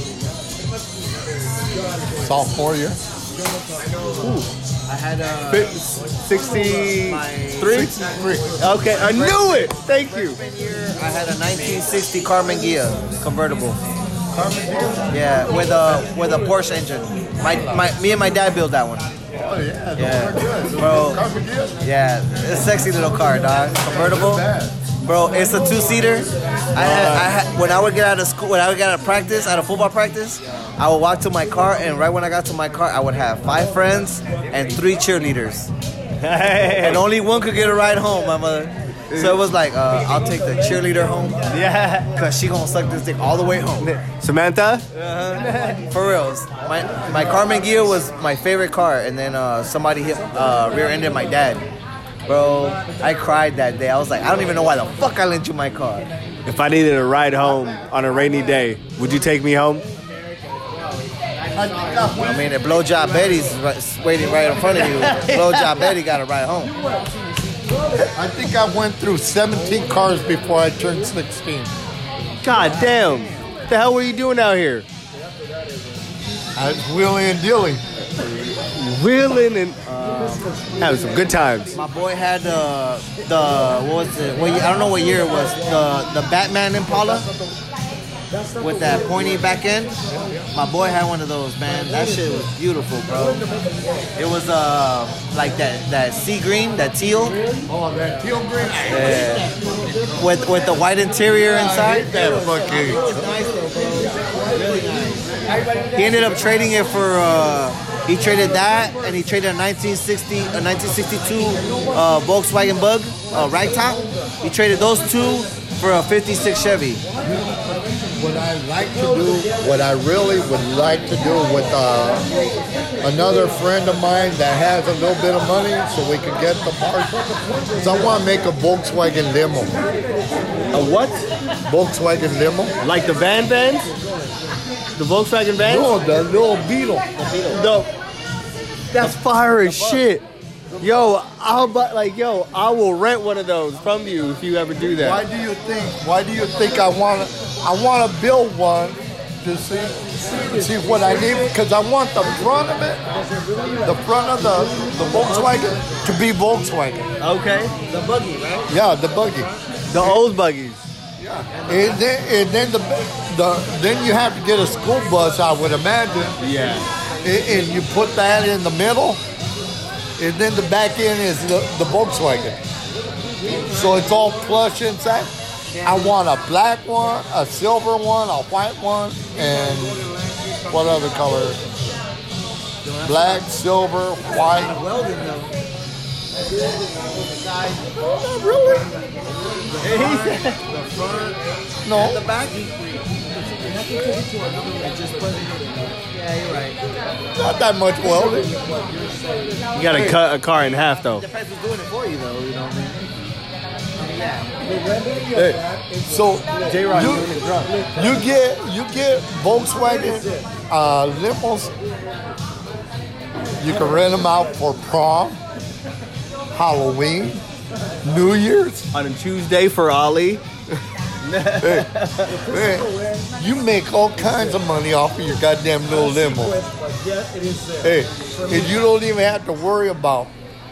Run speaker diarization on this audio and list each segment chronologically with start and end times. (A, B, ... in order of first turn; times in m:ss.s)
0:02.2-0:03.0 A
0:04.2-0:04.5 B
0:04.9-0:05.8 C
0:05.5-0:07.9 B
0:06.9-0:08.0 C
0:07.6-0:08.6 A
0:08.6-0:10.4 B
0:08.8-0:13.8 C
0:14.3-0:15.3 A
0:15.1-0:19.1 C
0:17.5-0:17.9 A
0:19.4-0:21.8 A
0:20.0-0:21.2 C
0:21.8-0:24.4 C
0:23.8-0:24.8 A
0:25.0-0:35.7 C
0:26.8-0:27.3 B
0:36.2-0:37.0 B
0:36.8-0:41.5 C
0:39.1-0:39.4 B
0:41.5-0:42.1 B
0:42.1-0:43.9 C
0:43.8-0:45.8 B
0:45.0-0:51.6 C
0:52.3-0:56.1 C
0:56.4-0:59.9 B
1:01.5-1:02.5 A
1:02.2-1:06.8 C
1:04.9-1:05.9 B
1:08.1-1:11.7 A
1:12.4-1:14.8 B
1:16.6-1:17.8 A
1:18.6-1:19.8 B
1:19.8-1:20.6 C
1:20.8-1:21.7 B
1:21.7-1:27.3 C
1:28.6-1:30.0 C
1:30.5-1:33.4 C
1:34.2-1:37.4 C
1:37.7-1:39.5 A
1:38.9-1:39.5 C
1:40.2-1:45.3 C
1:41.5-1:43.3 A
1:45.9-1:57.0 C
1:57.2-2:02.3 A
2:03.0-2:07.2 A
2:07.8-2:09.8 A
2:10.7-2:11.2 B
2:11.7-2:12.7 A
2:12.8-2:13.9 B
2:14.9-2:15.9 B
2:15.6-2:17.2 A
2:17.2-2:17.9 C
2:17.5-2:17.8 B
2:18.9-2:20.2 B
2:20.8-2:25.2 B
2:25.0-2:33.0 A
2:33.8-2:37.1 A
2:35.2-2:35.6 C
2:37.2-2:38.7 C
2:38.7-2:40.2 A
2:39.9-2:40.8 B
2:41.2-2:46.4 A
2:41.5-2:42.0 C
2:46.4-2:46.9 B
2:47.2-2:49.2 A
2:50.2-2:52.6 A
2:53.4-2:55.3 A
2:55.7-2:56.1 C
2:55.8-3:00.0 A
3:00.7-3:01.6 A
3:02.8-3:03.4 C
3:03.0-3:04.8 A
3:04.6-3:05.5 C
3:07.1-3:07.8 C
3:08.0-3:08.9 B
3:09.8-3:10.6 B
3:09.8-3:11.4 C
3:11.8-3:12.2 A
3:11.9-3:13.1 C
3:14.8-3:16.8 C
3:17.3-3:18.5 A
3:19.7-3:21.2 B
3:19.8-3:20.2 C
3:21.1-3:23.0 C
3:24.0-3:24.6 C
3:25.3-3:27.3 A
3:26.6-3:27.8 B
3:27.9-3:31.7 A
3:33.6-3:35.4 A
3:36.5-3:37.4 A
3:38.0-3:38.9 A
3:38.9-3:40.4 B
3:41.2-3:42.4 B
3:41.6-3:46.6 A
3:47.8-3:50.3 A